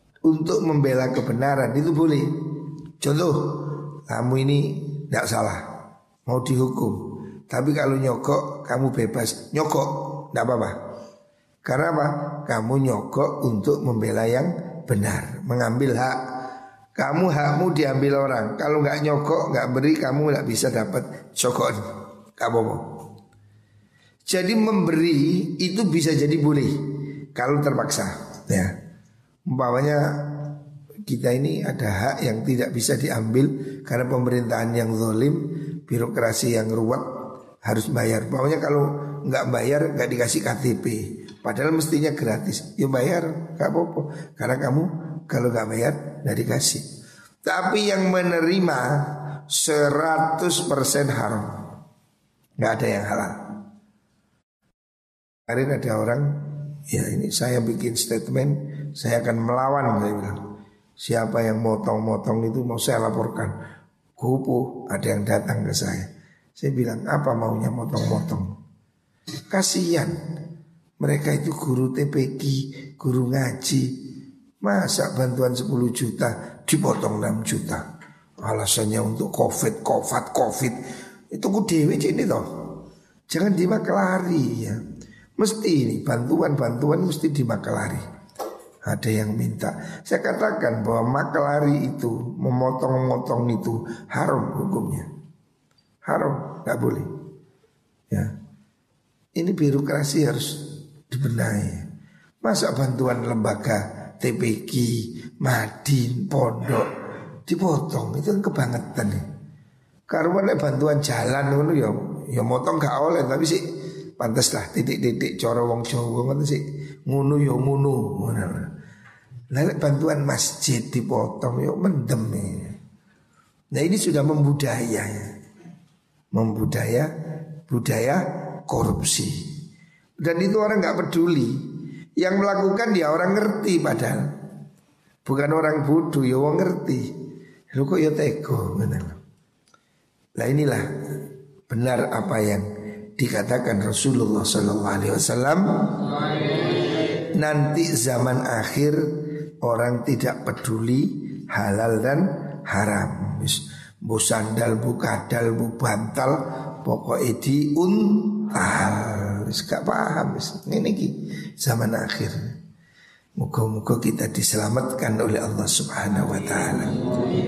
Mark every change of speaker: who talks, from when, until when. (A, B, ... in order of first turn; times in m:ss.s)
0:00.3-0:05.7 A
0:06.3-0:10.8 A
0:11.6-0:16.2 A
0:17.0-0:21.8 A
0:22.4-0:23.0 A
0:24.3-0:28.7 A
0:29.5-0:37.0 A
0:37.6-0:46.9 A
0:47.4-0:51.7 A
0:52.6-0:53.4 A
0:55.5-0:56.4 A
0:56.9-1:00.4 A
1:01.0-1:03.5 A
1:04.2-1:08.5 A
1:09.5-1:10.2 A
1:11.0-1:14.0 A
1:14.6-1:17.8 A
1:18.4-1:20.8 A
1:21.3-1:22.5 A
1:23.3-1:24.8 A
1:25.4-1:28.0 A
1:28.8-1:35.1 A
1:36.0-1:37.1 A
1:39.4-1:41.8 A
1:42.4-1:46.9 A
1:47.5-1:49.2 A
1:50.1-1:53.6 A
1:54.2-1:58.7 A
1:59.5-2:02.7 A
2:03.7-2:05.3 A
2:06.3-2:07.1 A
2:07.7-2:09.4 A
2:10.2-2:11.6 A
2:12.2-2:14.3 A
2:15.2-2:17.1 A
2:17.7-2:19.2 A
2:20.4-2:20.9 A
2:21.7-2:22.7 A
2:23.2-2:26.0 A
2:27.3-2:29.0 A
2:29.6-2:42.5 A
2:43.4-2:47.1 A